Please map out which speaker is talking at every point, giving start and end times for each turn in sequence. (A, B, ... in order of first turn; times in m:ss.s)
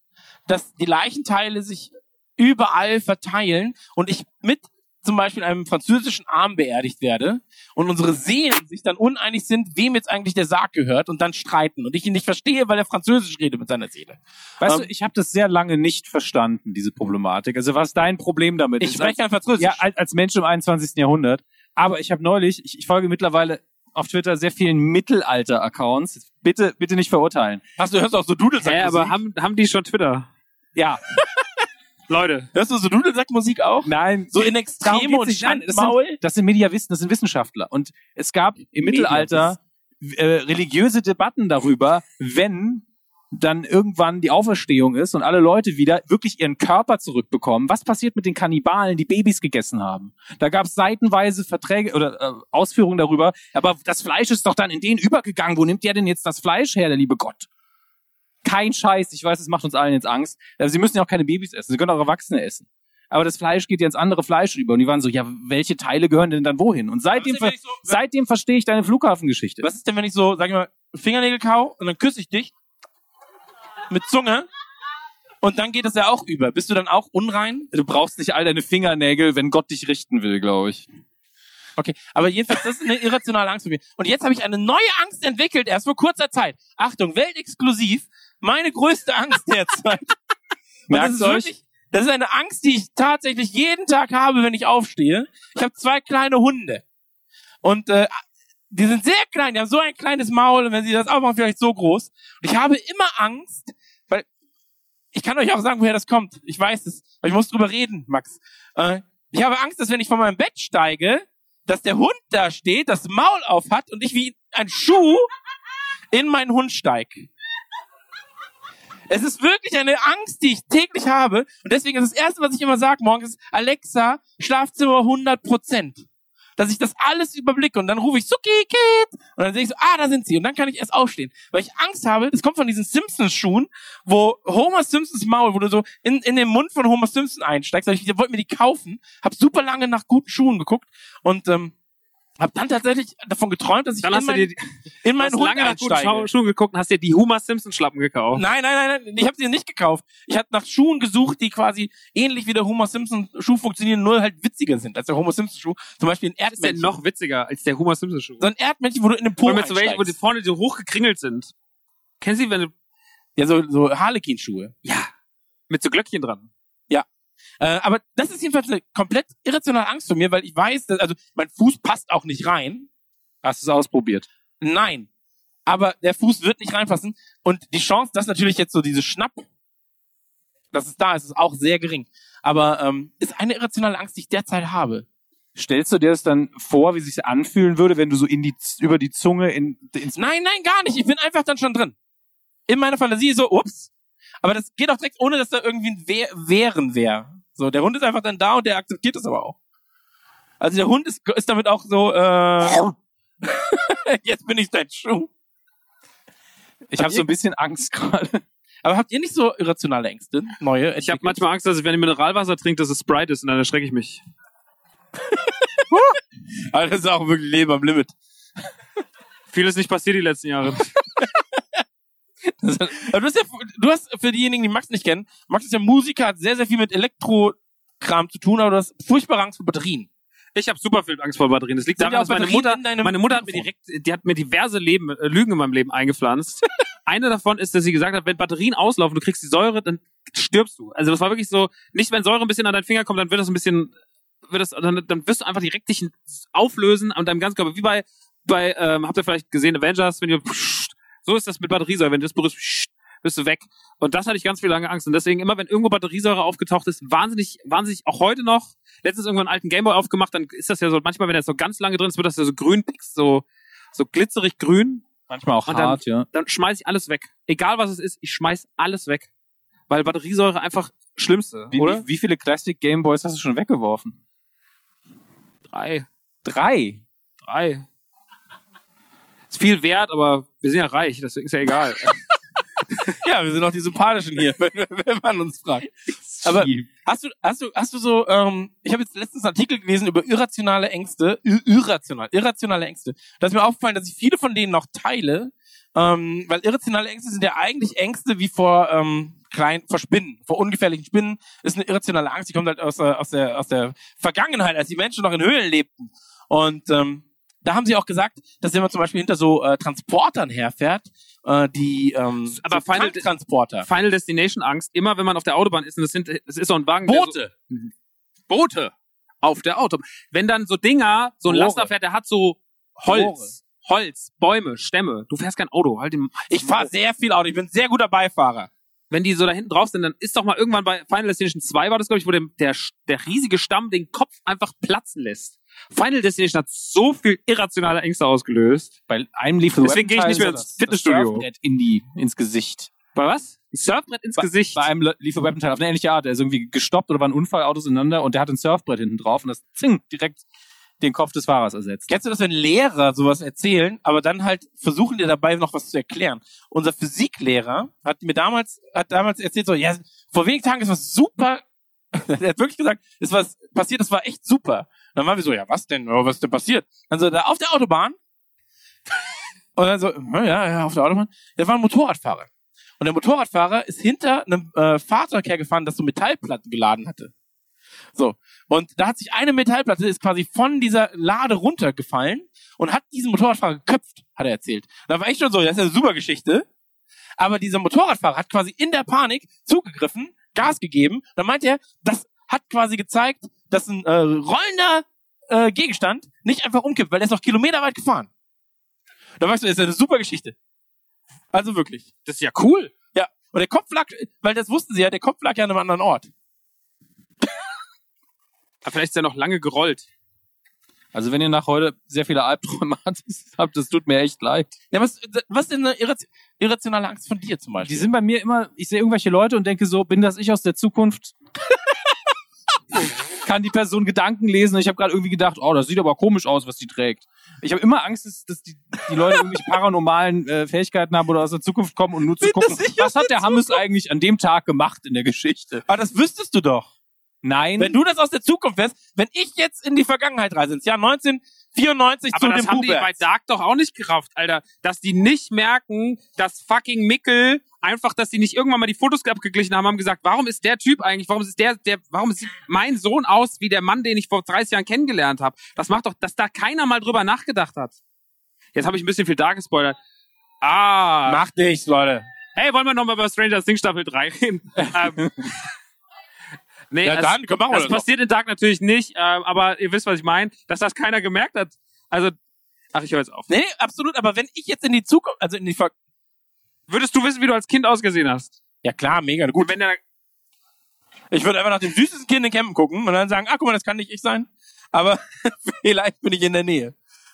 0:00.5-0:14.9 A
0:14.6-0:27.6 B
0:18.8-0:19.8 A
0:27.8-0:29.2 A
0:28.6-0:30.3 C
0:30.8-0:31.0 B
0:32.1-0:32.5 C
0:32.5-0:36.2 A
0:33.8-0:57.5 B
0:38.8-0:39.5 A
0:58.4-1:09.7 B
1:07.1-1:08.0 A
1:09.6-1:12.5 A
1:13.9-1:14.5 A
1:15.4-1:17.7 A
1:17.7-1:20.8 B
1:21.8-1:30.1 A
1:30.9-1:31.5 B
1:30.9-1:36.8 A
1:37.6-1:38.1 A
1:38.7-1:44.2 A
1:45.1-1:55.3 A
1:56.1-1:57.3 A
1:59.1-2:06.0 A
2:06.6-2:21.7 A
2:22.4-2:24.5 A
2:24.0-2:24.6 C
2:25.0-2:26.3 A
2:25.2-2:28.4 C
2:28.3-2:36.9 A
2:36.5-2:38.4 C
2:38.4-2:40.1 A
2:39.4-2:41.5 C
2:42.2-2:42.7 C
2:43.4-2:44.7 A
2:44.8-2:45.1 C
2:45.7-2:46.5 C
2:47.6-2:52.9 A
2:53.4-2:54.3 B
2:54.6-2:55.1 A
2:55.7-2:59.4 A
3:00.7-3:05.0 A
3:05.6-3:10.2 B
3:10.1-3:11.9 A
3:12.7-3:13.9 A
3:14.4-3:19.6 A
3:20.6-3:22.8 A
3:23.4-3:25.3 A
3:26.9-3:28.4 B
3:27.0-3:27.3 A
3:28.8-3:31.4 A
3:31.0-3:34.2 C
3:36.7-3:38.1 A
3:39.5-3:40.9 C
3:42.6-3:50.1 A
3:50.5-4:03.9 C
3:52.0-3:53.6 A
4:04.5-4:25.1 C
4:25.3-4:26.2 B
4:25.7-4:29.3 C
4:29.9-4:32.0 C
4:31.7-4:34.1 B
4:35.7-4:36.0 C
4:36.4-4:37.0 B
4:37.4-4:37.8 C
4:39.5-4:42.2 C
4:43.2-4:45.9 A
4:46.2-4:46.9 B
4:46.4-5:13.9 A
5:12.5-5:13.3 C
5:13.8-5:17.9 C
5:17.0-5:17.5 A
5:18.5-5:26.9 C
5:21.5-5:21.9 A
5:23.0-5:23.5 A
5:26.5-5:28.7 A
5:29.1-5:38.9 C
5:39.1-5:42.9 B
5:39.8-5:41.4 C
5:43.1-5:44.8 C
5:44.4-5:50.4 B
5:51.0-5:52.1 B
5:52.1-6:01.6 A
6:02.1-6:08.2 A
6:09.8-6:12.5 A
6:13.0-6:17.3 A
6:18.1-6:26.6 A
6:27.4-6:38.3 A
6:39.4-6:40.5 A
6:41.5-6:42.1 A
6:42.2-6:43.0 C
6:43.1-6:46.3 A
6:48.8-6:50.1 C
6:51.1-6:54.7 B
6:54.9-6:58.1 A
6:57.8-7:01.3 B
7:03.4-7:15.8 B
7:12.4-7:13.8 A
7:15.9-7:16.9 A
7:17.4-7:18.0 B
7:17.8-7:23.2 A
7:22.3-7:38.0 C
7:38.7-7:40.0 C
7:40.6-7:41.4 C
7:41.2-7:42.2 A
7:42.5-7:45.3 C
7:46.9-7:52.3 C
7:47.0-7:48.0 A
7:52.9-7:53.5 C
7:53.5-7:55.9 A
7:56.9-7:58.6 C
7:58.8-7:59.7 A
7:59.5-8:00.0 C
8:01.3-8:06.9 A